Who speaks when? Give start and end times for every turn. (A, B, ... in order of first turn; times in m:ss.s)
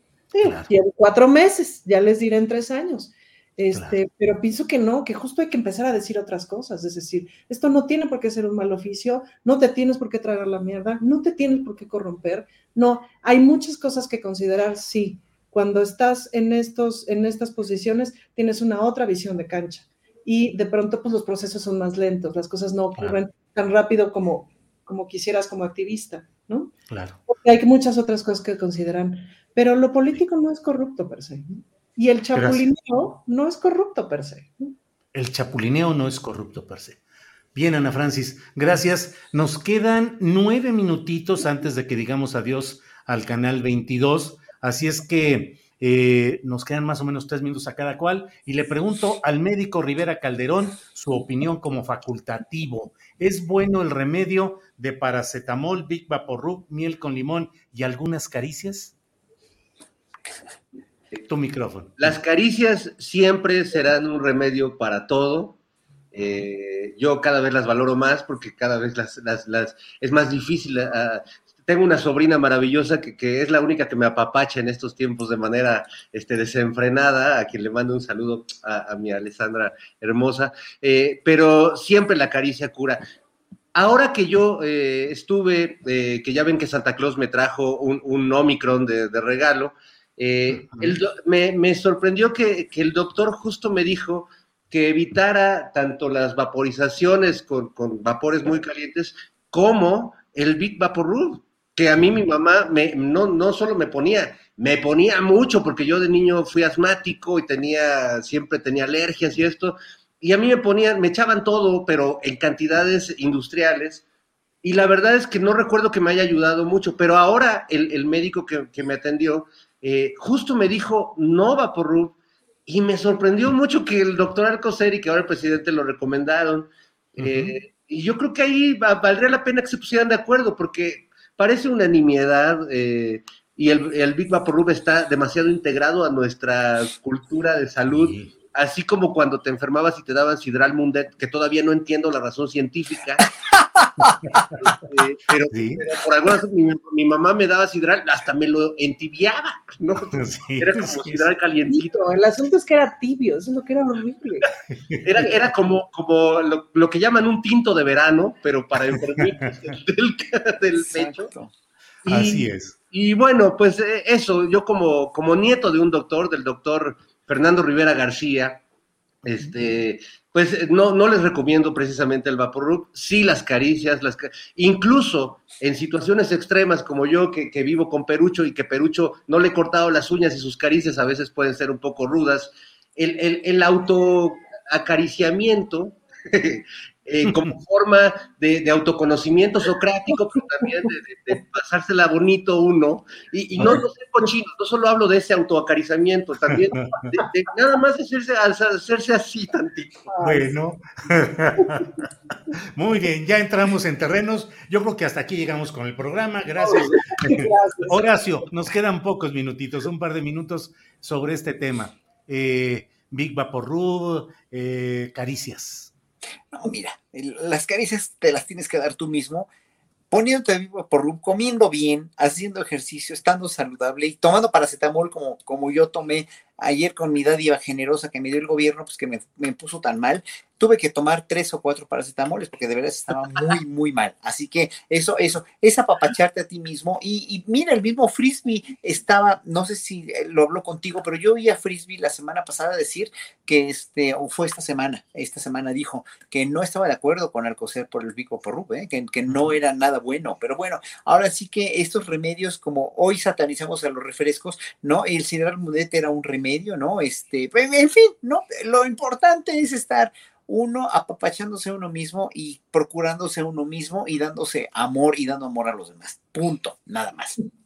0:00.3-0:26.7 A
0:00.4-0:00.7 B
0:26.9-0:27.2 B
0:27.3-0:34.7 A
0:32.4-0:32.7 B
0:35.1-0:37.0 B
0:37.6-0:59.0 B
1:01.2-1:02.2 B
1:02.0-1:05.6 C
1:06.1-1:23.0 C
1:23.7-1:54.0 C
1:30.5-1:31.0 B
1:54.6-2:02.2 C
2:02.7-2:23.2 C
2:07.2-2:07.6 B
2:17.9-2:18.3 B
2:24.6-2:31.9 C
2:25.5-2:25.8 B
2:30.1-2:31.3 B
2:31.7-2:34.5 A
2:34.7-2:35.1 B
2:35.0-2:41.2 C
2:40.8-2:41.5 D
2:42.1-2:42.7 B
2:42.9-2:48.6 C
2:49.2-3:20.1 C
3:16.6-3:17.1 B
3:20.1-3:20.5 A
3:20.2-3:21.9 B
3:22.7-3:35.9 B
3:26.6-3:28.0 A
3:36.5-3:39.5 D
3:40.1-4:27.4 D
4:09.3-4:09.5 B